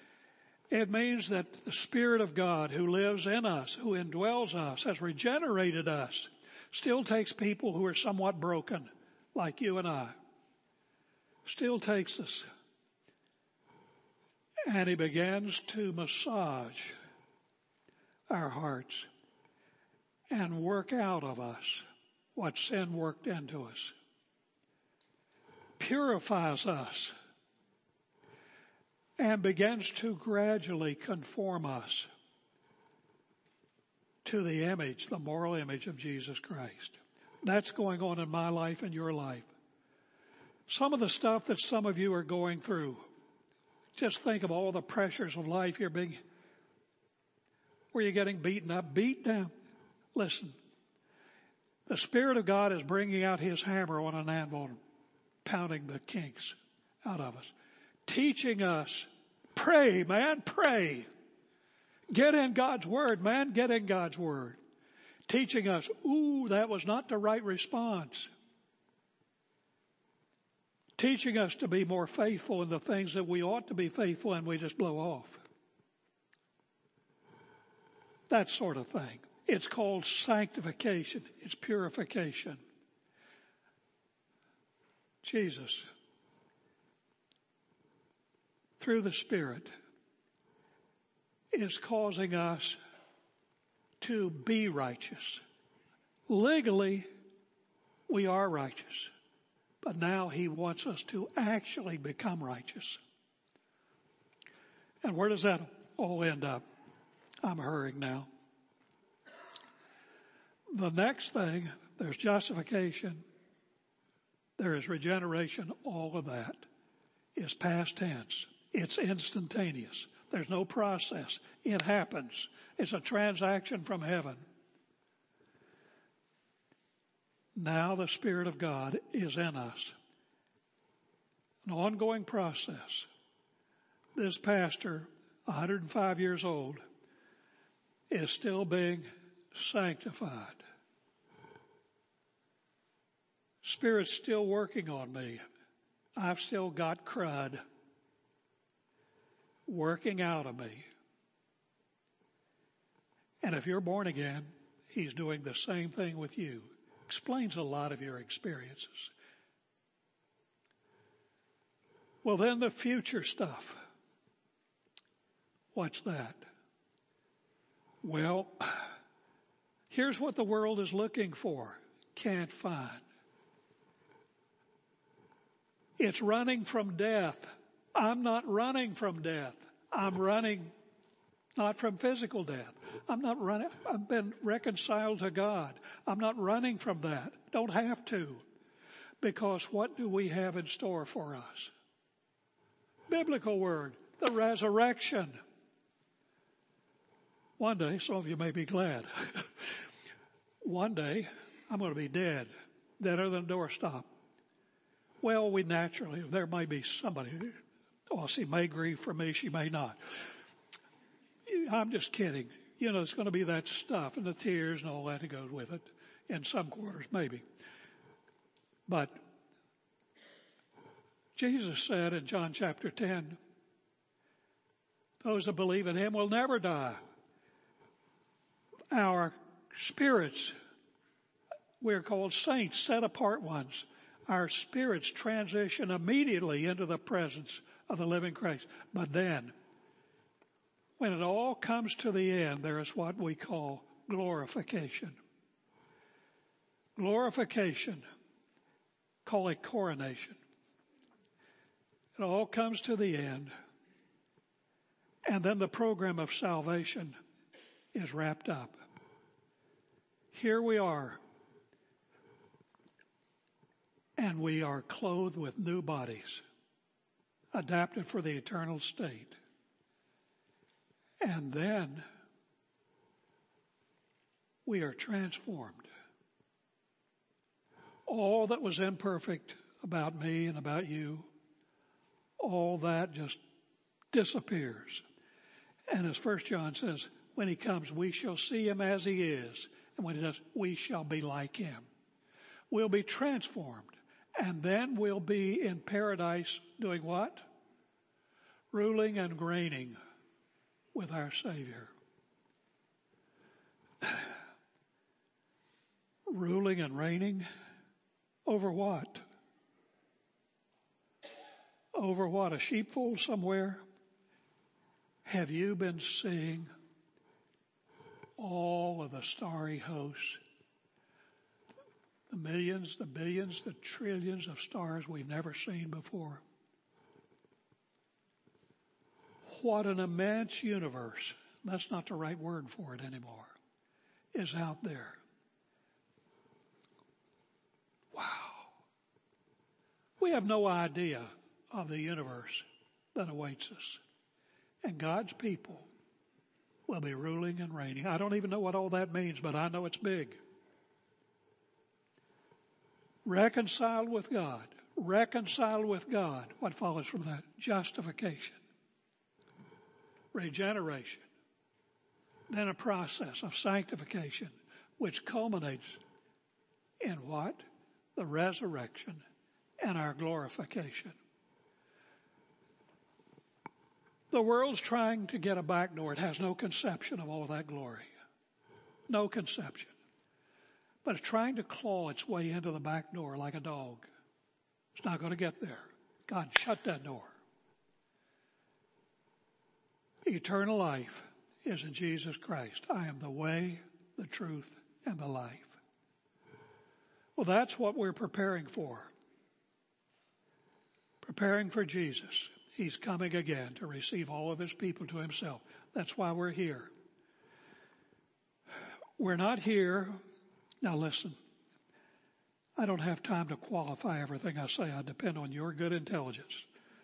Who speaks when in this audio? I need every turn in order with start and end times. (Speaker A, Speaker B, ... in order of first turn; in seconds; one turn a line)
Speaker A: 0.7-10.2
Speaker A: 11.4-12.5
Speaker A: 14.7-16.9
Speaker A: 18.3-19.1
Speaker A: 20.3-23.9
Speaker A: 25.8-27.1
Speaker A: 29.2-32.1
Speaker A: 34.2-39.5
Speaker A: 40.7-43.1
Speaker A: 44.0-46.2
Speaker A: 47.9-49.5
Speaker A: 50.1-50.5
Speaker A: 51.9-54.8
Speaker A: 55.4-57.5
Speaker A: 58.0-61.1
Speaker A: 62.1-64.6
Speaker A: 65.3-68.3
Speaker A: 71.0-75.4
Speaker A: 78.3-82.6
Speaker A: 85.2-85.9
Speaker A: 88.8-89.7
Speaker A: 91.5-92.8
Speaker A: 94.0-95.4
Speaker A: 96.3-97.1
Speaker A: 98.1-99.1
Speaker A: 99.8-103.0
Speaker A: 105.0-106.6
Speaker A: 107.4-108.3
Speaker A: 110.7-113.2
Speaker A: 114.6-116.7
Speaker A: 117.3-124.4
Speaker A: 127.5-129.9
Speaker A: 131.6-133.1
Speaker A: 134.2-136.8
Speaker A: 138.1-140.6
Speaker A: 143.6-145.4
Speaker A: 146.2-147.6
Speaker A: 149.7-150.8
Speaker A: 153.4-159.1
Speaker A: 162.2-163.8
Speaker A: 165.7-166.4
Speaker A: 168.0-169.0
Speaker A: 169.9-173.0
Speaker A: 176.0-180.7
Speaker A: 181.6-188.4
Speaker A: 189.2-191.7
Speaker A: 193.1-195.4
Speaker A: 197.6-199.7
Speaker A: 200.6-204.1
Speaker A: 205.2-207.6
Speaker A: 208.1-210.0
Speaker A: 211.4-217.4
Speaker A: 218.9-219.2
Speaker A: 221.3-223.4
Speaker A: 225.2-227.0
Speaker A: 228.9-230.6
Speaker A: 231.8-239.5
Speaker A: 241.0-245.2
Speaker A: 247.0-248.0
Speaker A: 249.2-250.4
Speaker A: 252.2-253.5
Speaker A: 255.2-257.1
Speaker A: 257.9-258.8
Speaker A: 260.3-261.2
Speaker A: 264.2-266.4
Speaker A: 267.5-269.4
Speaker A: 271.2-272.1
Speaker A: 274.6-275.9
Speaker A: 278.1-281.3
Speaker A: 282.4-283.4
Speaker A: 284.1-285.0
Speaker A: 285.9-291.9
Speaker A: 292.7-297.4
Speaker A: 298.7-300.0
Speaker A: 300.9-301.9
Speaker A: 304.0-304.3
Speaker A: 306.3-307.5
Speaker A: 308.4-309.2
Speaker A: 311.9-313.8
Speaker A: 315.2-316.7
Speaker A: 318.4-320.4
Speaker A: 322.3-326.4
Speaker A: 329.5-333.5
Speaker A: 334.3-335.2
Speaker A: 338.1-338.7
Speaker A: 340.2-344.0
Speaker A: 344.8-345.9
Speaker A: 346.9-350.4
Speaker A: 353.2-358.6
Speaker A: 360.3-361.2
Speaker A: 362.5-366.0
Speaker A: 367.0-367.6
Speaker A: 368.1-369.2
Speaker A: 369.8-371.1
Speaker A: 374.3-378.1
Speaker A: 379.1-379.9
Speaker A: 381.0-384.1
Speaker A: 384.9-387.4
Speaker A: 390.2-395.8
Speaker A: 397.4-399.1
Speaker A: 401.2-406.9
Speaker A: 409.2-410.2
Speaker A: 410.8-411.4
Speaker A: 412.8-416.6